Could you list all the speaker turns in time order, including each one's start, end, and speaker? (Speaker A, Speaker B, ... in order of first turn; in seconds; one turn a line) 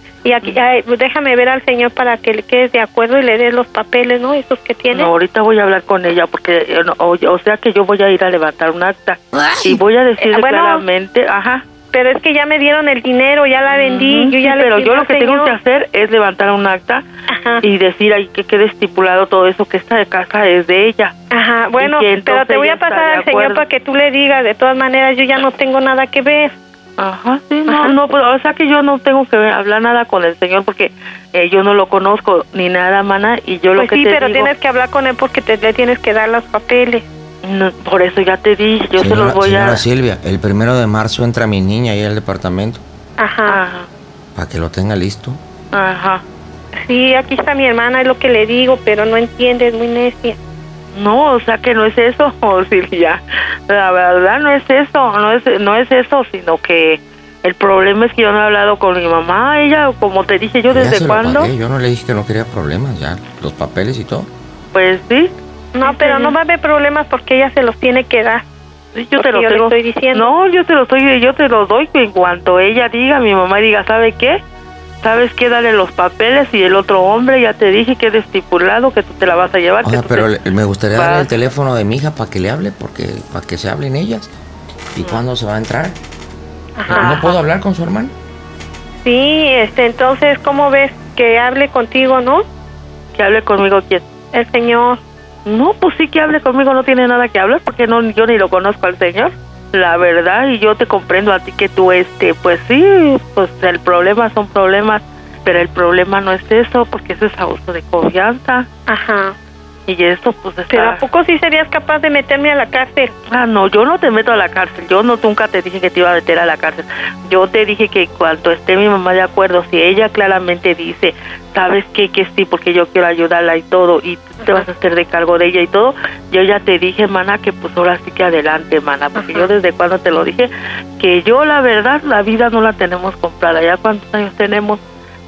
Speaker A: 0.2-5.1
Speaker B: 4.9-11.6
Speaker A: 10.2-10.8
Speaker A: 11.9-15.5
Speaker B: 13.7-17.0
Speaker A: 17.3-17.6
Speaker B: 17.6-21.1
Speaker A: 21.3-26.5
Speaker B: 21.8-23.6
Speaker B: 27.0-34.5
Speaker A: 27.7-27.9
Speaker A: 33.8-37.0
Speaker B: 37.4-39.8
Speaker C: 39.0-42.8
Speaker A: 43.2-43.6
Speaker B: 43.5-43.9
Speaker C: 44.3-45.4
Speaker B: 45.7-46.2
Speaker A: 46.8-50.4
Speaker B: 50.9-61.5
Speaker C: 60.7-64.3
Speaker B: 64.7-66.3
Speaker A: 65.8-68.4
Speaker B: 68.9-74.4
Speaker A: 69.2-70.3
Speaker B: 75.0-80.3
Speaker C: 79.8-84.3
Speaker B: 80.9-81.3
Speaker C: 84.9-86.0
Speaker A: 86.8-87.4
Speaker C: 86.9-88.1
Speaker B: 86.9-87.2
Speaker A: 89.0-92.4
Speaker B: 93.1-94.0
Speaker A: 94.3-95.0
Speaker B: 95.5-108.7
Speaker A: 108.9-109.3
Speaker B: 109.9-111.0
Speaker A: 110.7-113.1
Speaker B: 113.3-134.8
Speaker A: 129.2-129.5